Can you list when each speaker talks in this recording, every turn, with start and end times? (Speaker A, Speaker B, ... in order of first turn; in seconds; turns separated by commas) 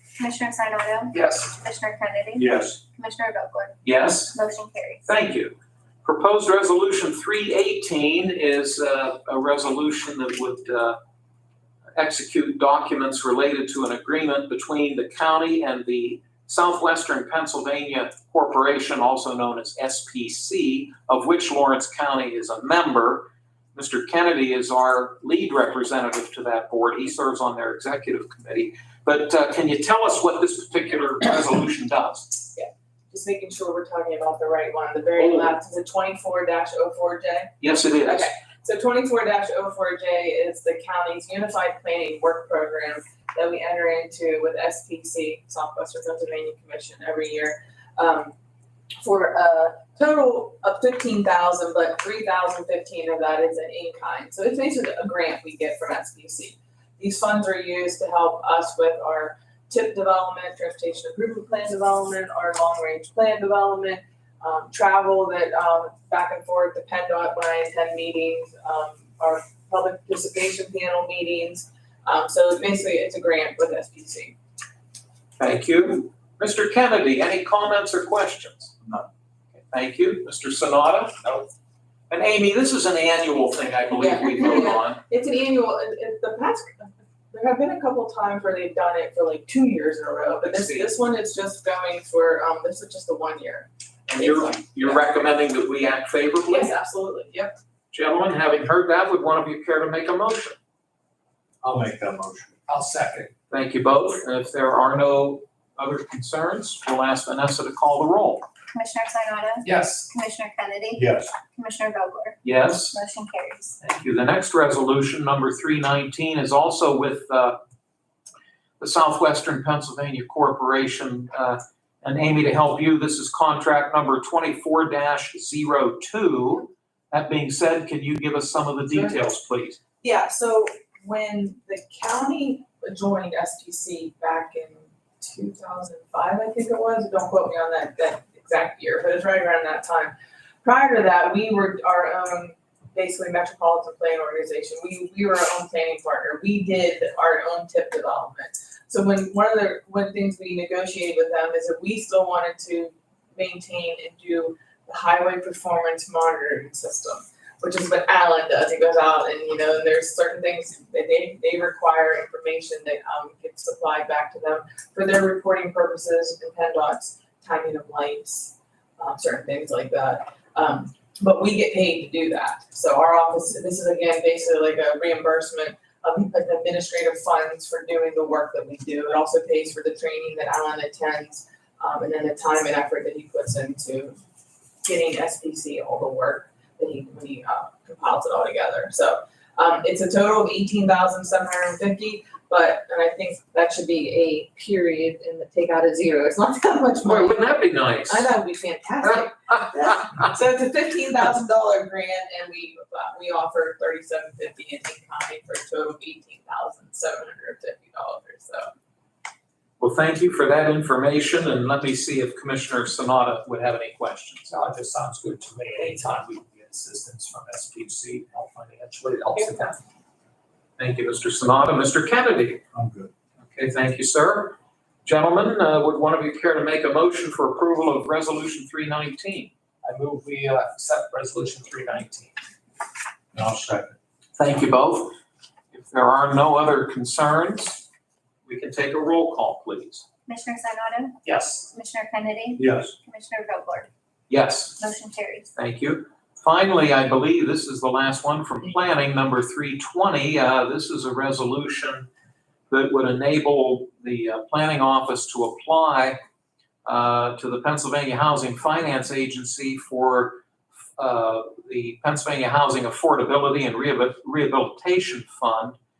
Speaker A: 0.2-5.0, Speaker B: 2.4-2.8, Speaker C: 3.8-4.4, Speaker C: 5.1-5.5, Speaker C: 6.0-11.0, Speaker C: 12.0-32.4, Speaker D: 32.5-48.3, Speaker C: 35.2-35.5, Speaker C: 37.6-38.3, Speaker D: 49.0-74.4, Speaker C: 75.4-78.9, Speaker C: 79.7-81.4, Speaker C: 82.1-85.0, Speaker D: 84.0-95.1, Speaker C: 90.4-90.9, Speaker C: 94.1-96.7, Speaker D: 96.5-97.5, Speaker C: 97.9-100.6, Speaker B: 101.6-102.7, Speaker E: 102.7-103.3, Speaker C: 103.5-108.5, Speaker A: 108.7-112.4, Speaker E: 109.7-110.1, Speaker B: 111.0-111.3, Speaker C: 112.4-113.0, Speaker A: 112.9-113.8, Speaker C: 113.8-117.6, Speaker C: 118.8-129.8, Speaker D: 130.0-184.2, Speaker D: 184.8-208.7, Speaker C: 197.0-198.3, Speaker C: 209.8-214.5, Speaker E: 214.5-219.8, Speaker C: 220.8-222.6, Speaker B: 222.8-223.1, Speaker C: 223.4-229.5, Speaker E: 229.9-232.4, Speaker B: 233.3-233.9, Speaker C: 234.4-235.1, Speaker C: 235.7-237.9, Speaker C: 238.5-240.1, Speaker A: 240.3-243.9, Speaker E: 241.3-241.7, Speaker B: 242.6-242.9, Speaker C: 244.3-244.8, Speaker A: 244.8-245.5, Speaker C: 245.6-252.1, Speaker C: 252.7-256.2, Speaker C: 256.9-260.4, Speaker C: 261.0-265.8